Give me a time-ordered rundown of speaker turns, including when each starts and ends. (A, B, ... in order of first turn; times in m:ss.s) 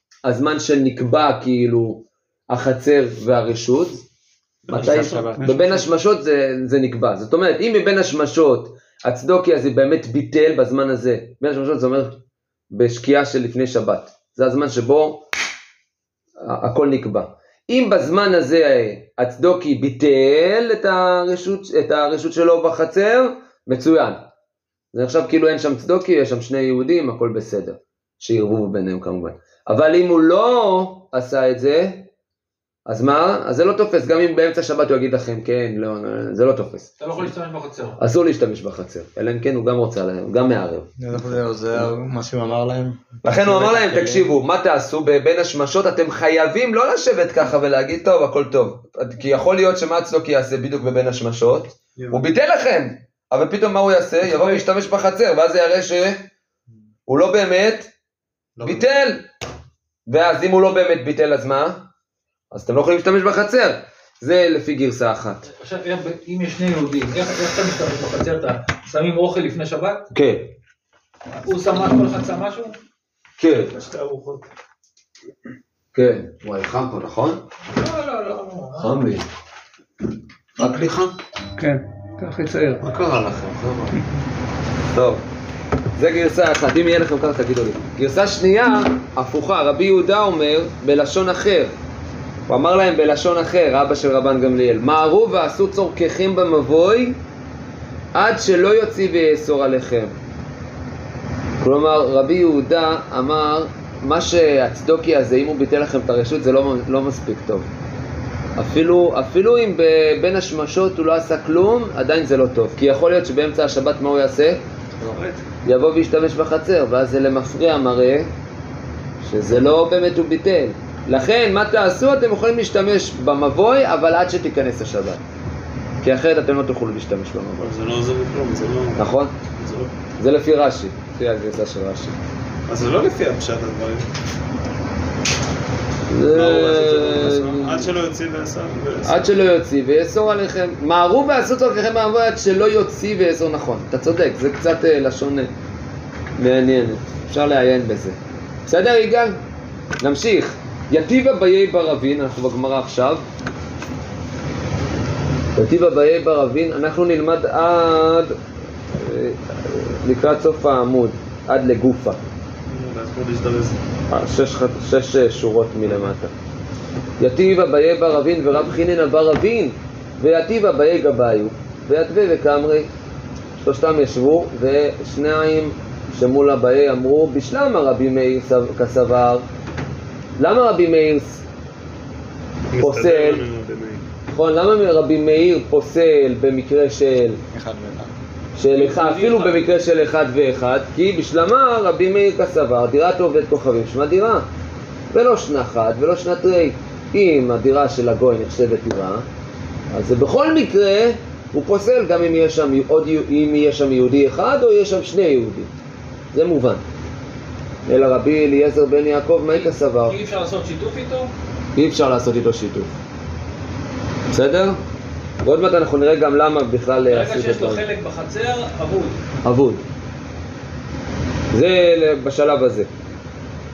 0:00.2-0:04.0 A
0:04.7-0:05.4 B
0:04.7-0:12.2 A
0:04.8-0:05.4 C
0:05.4-0:05.7 D
0:12.7-0:15.2 A
0:16.4-0:24.2 A
0:24.9-0:32.1 A
0:32.9-0:37.0 A
0:37.0-0:38.0 E
0:38.0-0:40.9 A
0:41.0-0:44.3 C
0:43.2-0:56.3 A
0:57.1-0:57.9 A
0:58.6-0:59.2 A
1:00.1-1:01.9 A
1:02.5-1:05.5 A
1:05.6-1:10.1 E
1:10.1-1:10.5 A
1:11.4-1:12.8 E
1:13.4-1:13.7 A
1:16.0-1:17.4 A
1:17.8-1:19.0 E
1:18.8-1:19.3 A
1:20.6-1:21.1 A
1:21.6-1:22.8 D
1:22.8-1:24.0 A
1:24.9-1:25.2 A
1:26.0-1:31.7 A
1:32.5-1:37.2 A
1:38.1-1:40.1 A
1:41.6-1:47.7 A
1:48.6-1:54.6 A
1:55.0-1:55.4 D
1:55.6-1:58.3 A
1:59.2-2:05.2 A
2:06.0-2:07.7 A
2:07.6-2:09.0 B
2:09.0-2:09.3 A
2:09.6-2:09.9 B
2:10.2-2:12.2 A
2:12.7-2:14.1 B
2:16.1-2:17.9 A
2:16.3-2:19.3 B
2:19.0-2:25.5 A
2:26.4-2:29.4 A
2:30.0-2:33.2 A
2:35.6-2:38.4 A
2:38.9-2:42.2 A
2:42.7-2:43.8 B
2:44.1-2:46.3 A
2:47.2-2:52.9 A
2:53.6-2:59.4 A
3:00.4-3:01.4 A
3:02.7-3:04.0 B
3:02.8-3:03.4 A
3:04.3-3:07.4 A
3:07.5-3:08.1 C
3:08.6-3:14.5 A
3:08.7-3:09.6 E
3:15.1-3:19.3 A
3:19.9-3:25.7 A
3:26.3-3:26.8 A
3:27.9-3:30.2 A
3:29.5-3:31.3 E
3:31.8-3:33.0 A
3:34.3-3:34.8 A
3:35.4-3:37.8 A
3:37.0-3:39.2 E
3:39.4-3:39.8 A
3:41.5-3:42.9 A